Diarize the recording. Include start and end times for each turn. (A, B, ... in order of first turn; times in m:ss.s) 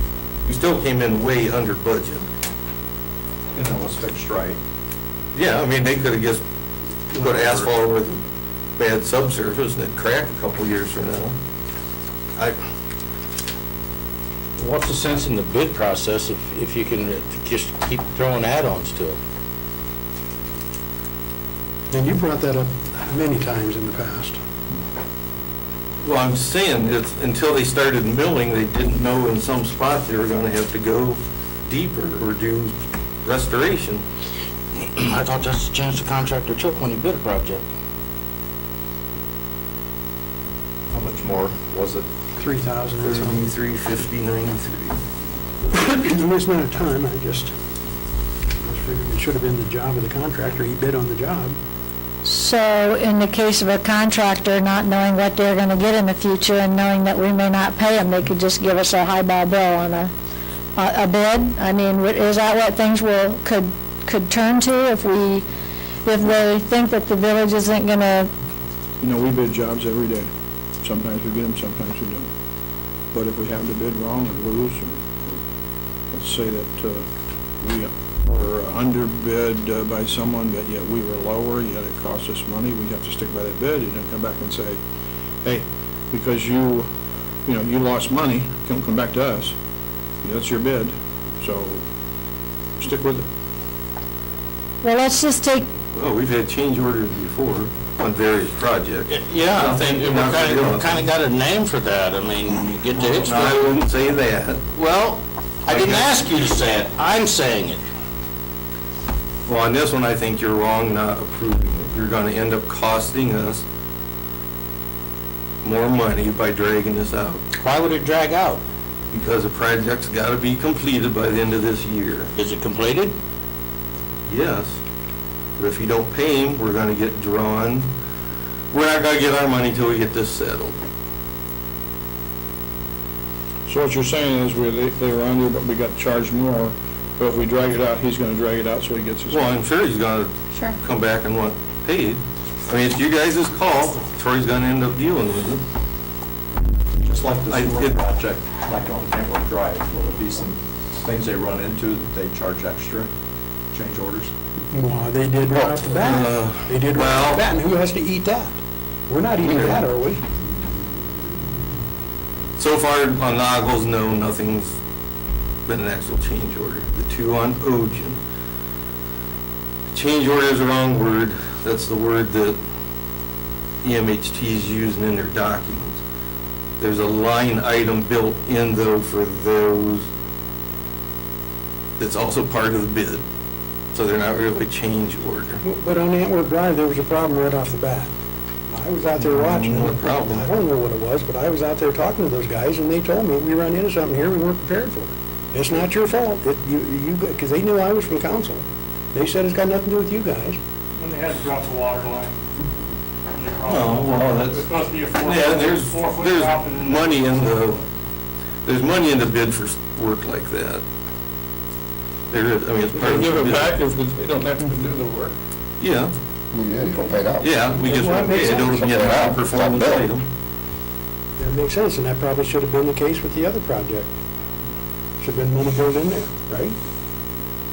0:00.5-0:02.2 A
0:03.5-0:04.6 B
0:05.3-0:06.4 A
0:07.1-0:08.2 A
0:07.2-0:07.7 B
0:08.8-0:11.4 A
0:14.6-0:19.2 C
0:21.9-0:24.4 D
0:26.0-0:34.0 A
0:34.8-0:37.6 C
0:40.9-0:42.0 B
0:42.4-0:43.4 D
0:43.0-0:45.0 A
0:45.7-0:47.5 D
0:48.6-0:51.6 D
0:52.2-1:00.1 E
1:00.8-1:05.5 E
1:06.0-1:08.3 E
1:09.0-1:10.3 F
1:10.8-1:12.3 F
1:13.1-1:15.4 F
1:16.1-1:17.1 F
1:17.6-1:24.8 F
1:25.4-1:26.9 F
1:27.5-1:29.6 F
1:30.2-1:31.8 F
1:32.8-1:33.3 F
1:34.8-1:35.7 E
1:35.9-1:41.0 A
1:39.1-1:43.8 C
1:43.1-1:44.7 A
1:44.7-1:47.8 C
1:45.7-1:46.1 A
1:49.5-1:53.6 A
1:55.6-1:57.4 A
1:57.6-1:58.6 C
1:59.1-2:02.3 A
2:02.4-2:03.2 C
2:04.3-2:04.8 A
2:05.6-2:07.9 A
2:08.7-2:10.8 A
2:13.7-2:19.6 F
2:19.3-2:25.6 A
2:27.0-2:33.1 B
2:27.5-2:28.0 A
2:33.7-2:34.3 B
2:34.7-2:40.2 D
2:35.6-2:37.4 A
2:39.4-2:39.9 A
2:42.6-2:44.8 A
2:45.7-2:48.2 A
2:49.9-2:52.6 A
2:53.8-2:56.0 A
2:56.8-3:00.1 A
3:02.0-3:03.2 A
3:03.9-3:05.6 A
3:05.6-3:08.1 D
3:08.7-3:20.6 D
3:09.2-3:10.4 A
3:21.0-3:22.4 G
3:23.3-3:27.9 G
3:23.6-3:27.8 A
3:28.7-3:30.8 A
3:32.3-3:33.8 A
3:32.9-3:35.4 F
3:35.8-3:36.1 A
3:36.5-3:37.6 H
3:37.4-3:40.3 A
3:37.8-3:39.0 D
3:38.4-3:40.1 H
3:41.4-3:44.1 D
3:45.2-3:46.8 D